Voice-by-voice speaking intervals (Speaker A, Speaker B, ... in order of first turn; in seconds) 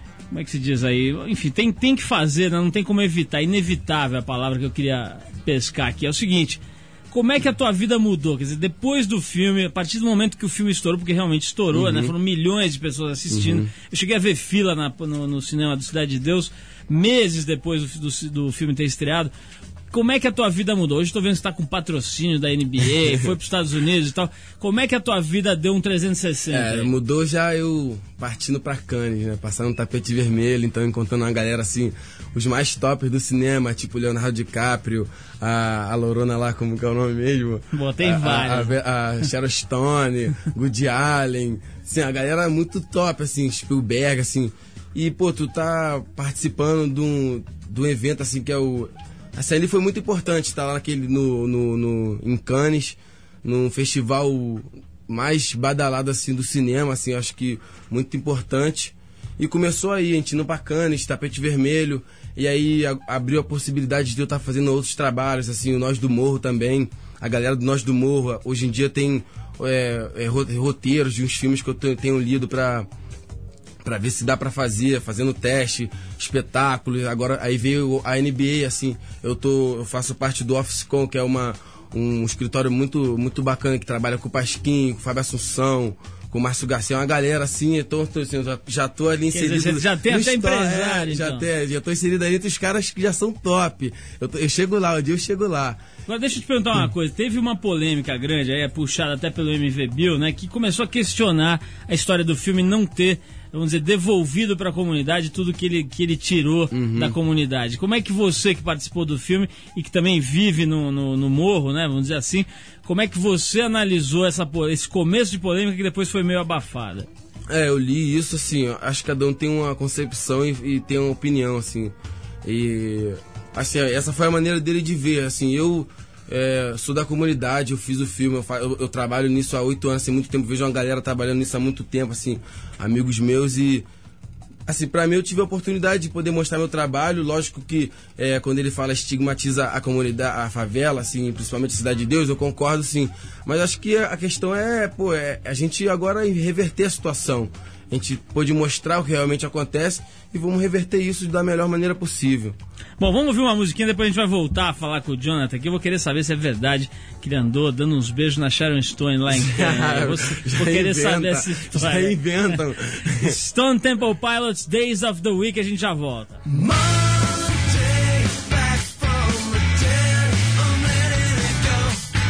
Speaker A: 0.3-19.3, 19.9-26.9, 37.7-38.7, 89.3-91.5, 96.1-117.1, 153.0-162.5, 163.2-166.4
Speaker B: 11.7-12.1, 13.3-13.7, 26.5-72.9, 73.8-95.8, 106.7-107.2, 117.5-133.8, 134.7-152.6, 159.3-163.3
Speaker C: 166.5-172.0